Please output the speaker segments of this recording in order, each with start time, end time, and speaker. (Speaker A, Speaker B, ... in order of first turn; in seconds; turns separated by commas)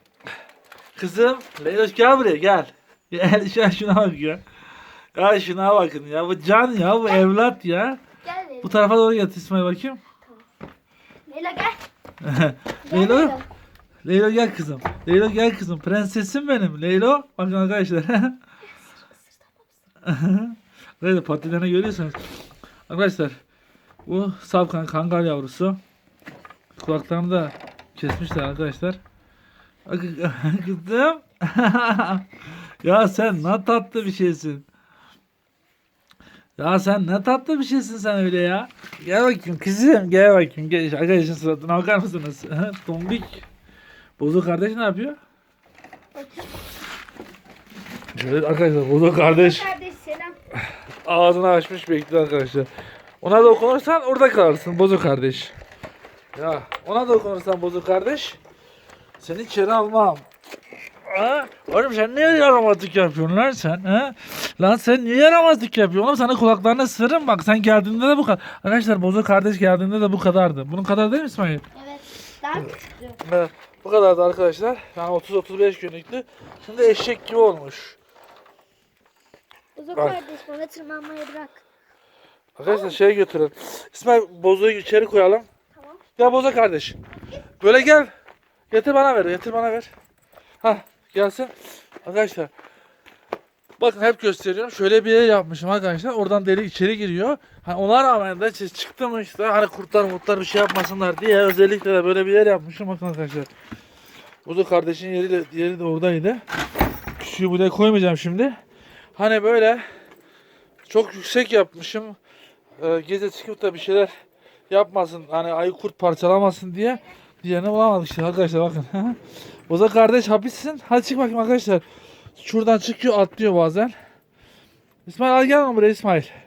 Speaker A: 0.9-4.4, Speaker A: 5.2-8.0, Speaker B: 8.2-8.8, Speaker A: 8.6-10.0, Speaker B: 11.2-11.8, Speaker A: 12.2-13.4, Speaker B: 12.8-13.4, Speaker A: 14.0-18.4, Speaker B: 19.1-19.7, Speaker A: 20.0-22.2, Speaker A: 22.9-23.4, Speaker A: 24.1-25.8, Speaker A: 26.8-29.0, Speaker A: 29.9-32.2, Speaker A: 32.8-34.7, Speaker A: 36.6-43.4, Speaker A: 44.2-45.2, Speaker B: 46.1-46.6, Speaker A: 48.1-49.7, Speaker B: 49.2-50.4, Speaker A: 51.0-52.7, Speaker A: 53.2-55.5, Speaker A: 56.3-58.4, Speaker A: 59.2-60.2, Speaker A: 61.1-71.6, Speaker B: 71.7-73.2, Speaker A: 73.2-78.0, Speaker B: 79.8-81.6, Speaker A: 79.9-80.2, Speaker A: 82.6-85.5, Speaker B: 82.7-83.0, Speaker B: 85.7-86.0, Speaker A: 86.2-87.0, Speaker A: 87.6-88.1, Speaker A: 88.7-89.9, Speaker A: 90.6-92.5, Speaker A: 93.8-103.5, Speaker A: 104.5-106.4, Speaker A: 107.2-108.5, Speaker A: 109.2-109.8, Speaker A: 110.9-112.2, Speaker A: 112.8-114.1, Speaker A: 114.7-121.8, Speaker A: 122.4-123.9, Speaker A: 125.0-126.3